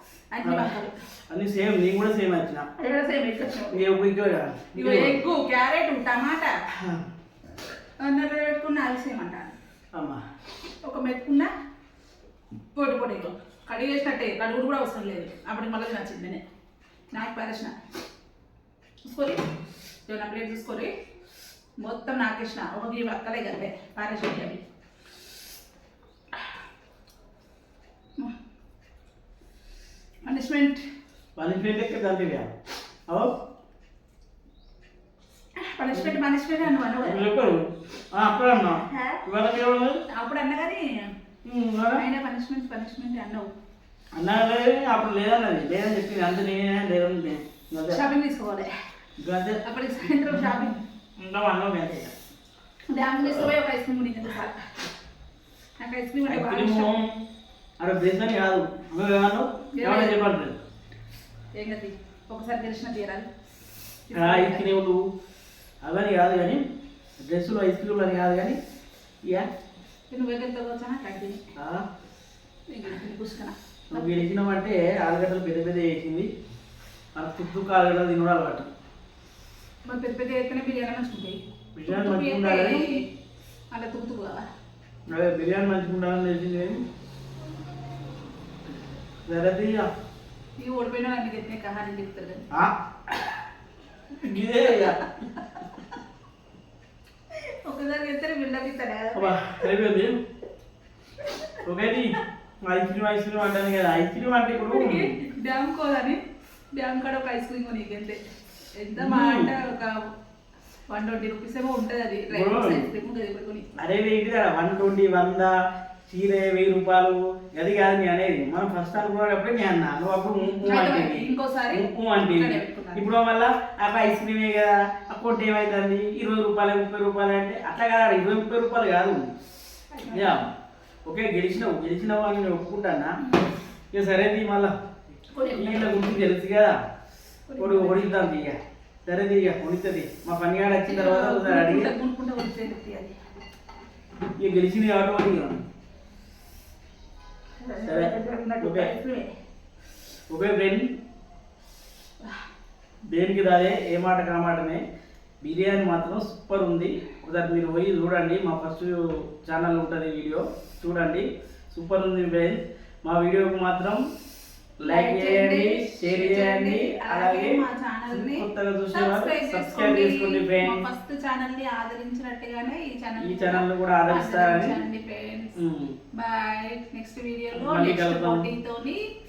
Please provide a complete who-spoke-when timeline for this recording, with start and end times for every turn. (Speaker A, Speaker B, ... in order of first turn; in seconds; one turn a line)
Speaker A: 0.3-0.9
Speaker B: 0.4-2.7
Speaker A: 2.8-3.8
Speaker B: 3.7-5.2
Speaker A: 4.7-6.5
Speaker B: 6.8-7.0
Speaker A: 8.0-9.5
Speaker B: 9.9-10.2
Speaker A: 10.8-11.5
Speaker A: 12.7-16.4
Speaker A: 17.1-17.7
Speaker A: 19.0-19.4
Speaker A: 20.1-20.9
Speaker A: 21.8-24.6
Speaker A: 30.2-30.8
Speaker B: 31.4-32.5
Speaker A: 35.6-37.2
Speaker B: 36.9-40.0
Speaker A: 40.1-41.0
Speaker B: 41.4-42.0
Speaker A: 42.0-43.5
Speaker B: 44.1-48.0
Speaker A: 47.9-48.7
Speaker B: 49.2-52.1
Speaker A: 49.6-50.8
Speaker A: 52.9-54.6
Speaker B: 53.2-53.5
Speaker A: 55.8-56.9
Speaker B: 56.2-57.2
Speaker B: 57.8-60.6
Speaker A: 59.7-60.2
Speaker A: 61.6-63.3
Speaker A: 64.1-64.7
Speaker B: 64.1-65.1
Speaker B: 65.8-66.6
Speaker B: 67.2-68.6
Speaker A: 70.1-71.4
Speaker B: 71.5-71.8
Speaker A: 72.7-74.2
Speaker B: 73.9-76.3
Speaker B: 77.1-78.7
Speaker A: 79.8-83.0
Speaker B: 81.8-82.9
Speaker A: 83.7-84.5
Speaker B: 85.1-86.8
Speaker B: 89.2-89.9
Speaker A: 90.6-92.4
Speaker B: 92.5-93.4
Speaker B: 94.1-95.1
Speaker A: 94.7-95.1
Speaker A: 97.3-99.7
Speaker B: 99.1-100.2
Speaker A: 101.2-101.6
Speaker B: 101.6-105.1
Speaker A: 104.5-106.2
Speaker A: 106.7-108.2
Speaker A: 108.8-110.1
Speaker B: 108.9-109.6
Speaker A: 110.9-113.7
Speaker B: 112.3-112.9
Speaker B: 113.8-115.5
Speaker B: 116.1-129.3
Speaker A: 120.6-123.1
Speaker A: 129.9-130.4
Speaker B: 130.1-130.5
Speaker B: 131.0-133.1
Speaker A: 133.2-133.5
Speaker B: 133.9-134.7
Speaker A: 135.3-136.1
Speaker B: 135.5-136.8
Speaker A: 137.5-138.1
Speaker B: 137.6-141.9
Speaker A: 140.8-143.1
Speaker B: 144.4-145.6
Speaker A: 147.6-149.3
Speaker B: 147.8-148.9
Speaker B: 150.3-150.8
Speaker B: 153.1-154.8
Speaker B: 155.4-164.0
Speaker B: 164.8-170.8
Speaker A: 164.8-175.6
Speaker B: 173.2-174.8
Speaker B: 175.6-175.9
Speaker A: 176.1-179.0
Speaker B: 177.5-178.5